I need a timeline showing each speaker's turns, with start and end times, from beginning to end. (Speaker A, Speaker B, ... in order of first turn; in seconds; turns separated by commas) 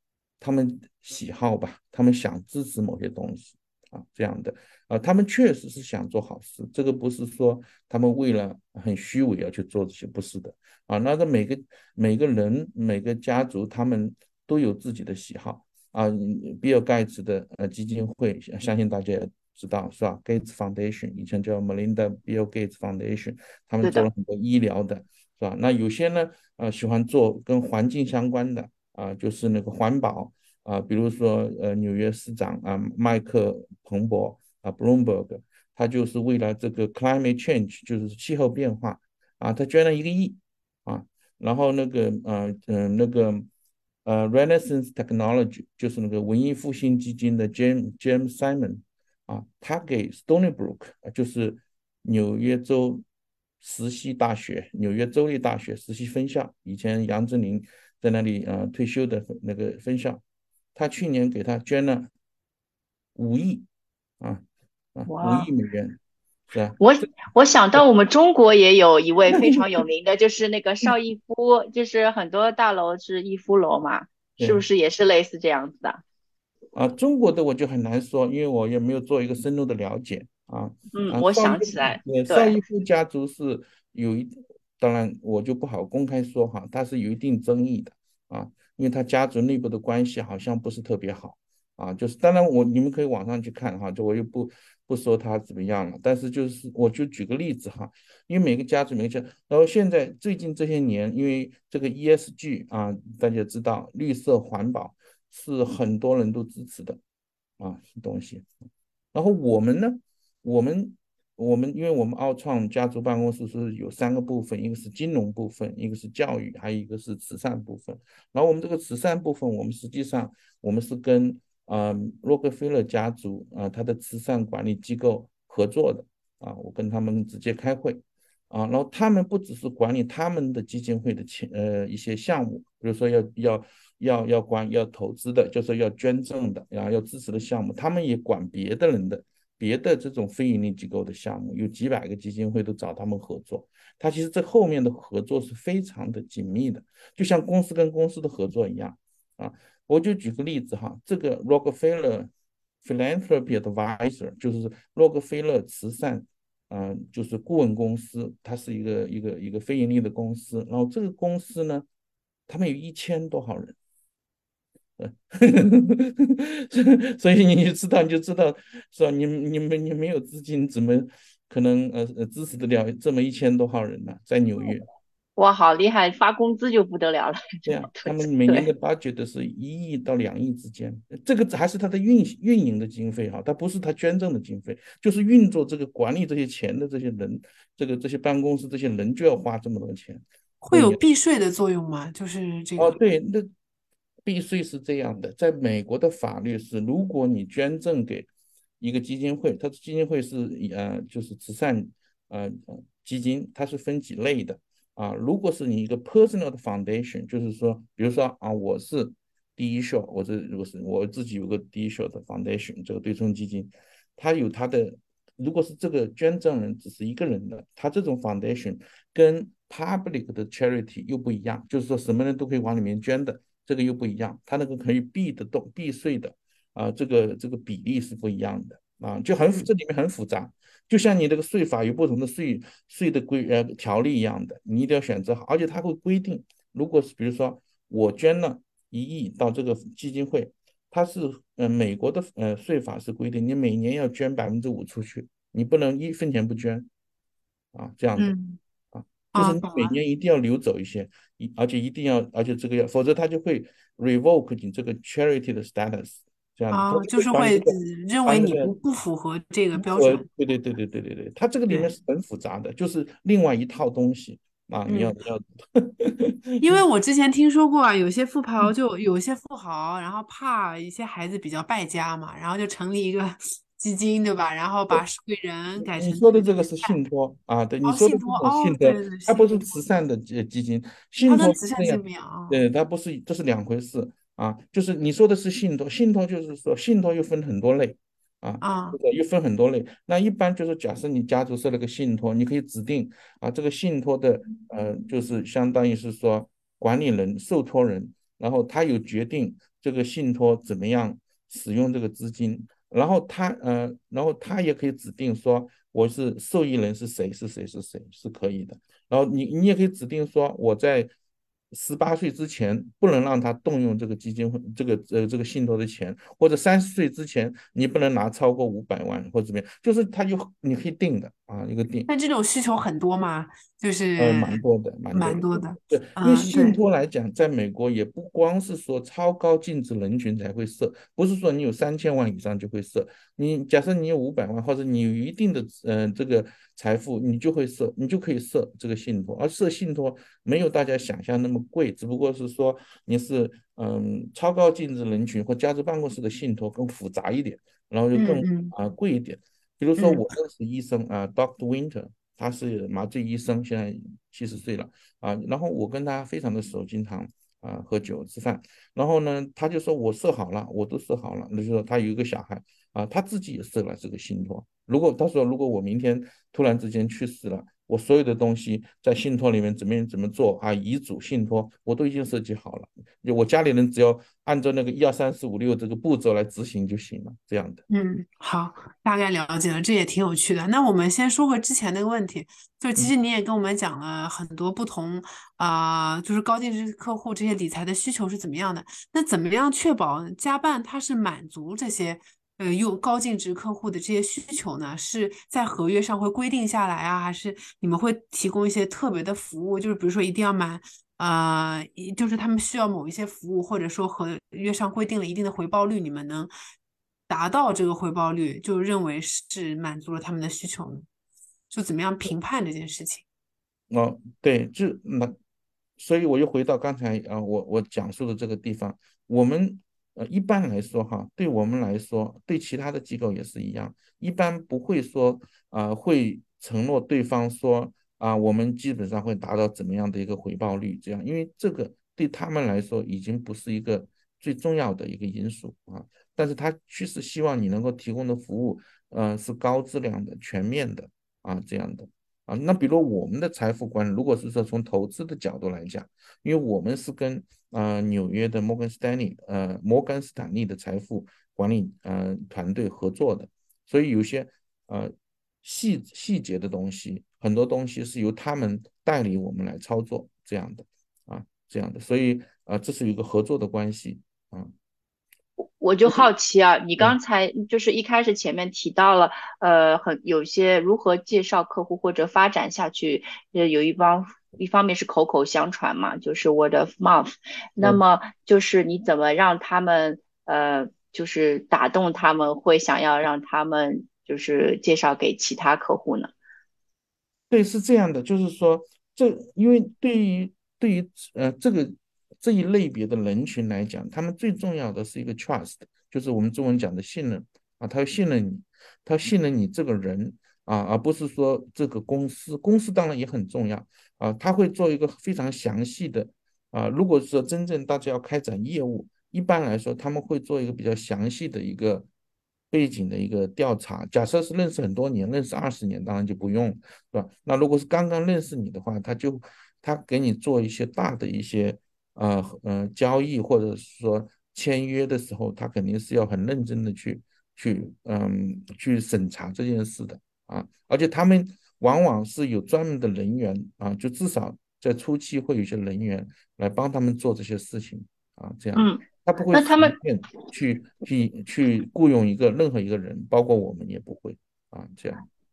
Speaker A: 0.4-43.5, Speaker A: 44.0-53.0, Speaker A: 53.6-60.2, Speaker A: 60.7-62.1, Speaker A: 63.1-63.6, Speaker A: 64.9-66.8, Speaker B: 65.1-65.5, Speaker B: 66.8-76.0, Speaker A: 69.3-69.7, Speaker A: 74.4-74.7, Speaker A: 76.7-107.0, Speaker B: 80.9-82.5, Speaker A: 107.6-108.5, Speaker A: 109.1-152.3, Speaker A: 152.8-161.9, Speaker A: 162.5-163.8, Speaker A: 165.0-174.9, Speaker B: 175.4-178.7, Speaker A: 177.7-191.0, Speaker C: 190.6-193.0, Speaker A: 192.8-193.5, Speaker A: 194.2-198.3, Speaker A: 198.8-246.9, Speaker A: 247.7-248.3, Speaker C: 248.2-248.6, Speaker A: 248.9-258.7, Speaker C: 249.3-249.9, Speaker C: 256.7-260.3, Speaker A: 259.7-266.8, Speaker C: 264.9-265.1, Speaker C: 266.6-277.0, Speaker A: 275.9-311.1, Speaker C: 277.8-279.8, Speaker C: 281.2-282.6, Speaker C: 288.6-289.0, Speaker A: 311.7-322.1, Speaker C: 322.1-324.6, Speaker A: 324.2-377.8, Speaker C: 325.1-326.8, Speaker C: 348.1-348.7, Speaker C: 350.0-350.2, Speaker C: 377.9-406.5, Speaker C: 407.3-411.1, Speaker C: 411.7-413.2, Speaker A: 413.9-415.4, Speaker A: 416.0-464.7, Speaker B: 465.6-486.3, Speaker A: 487.5-512.1, Speaker A: 512.7-545.2, Speaker B: 538.7-540.0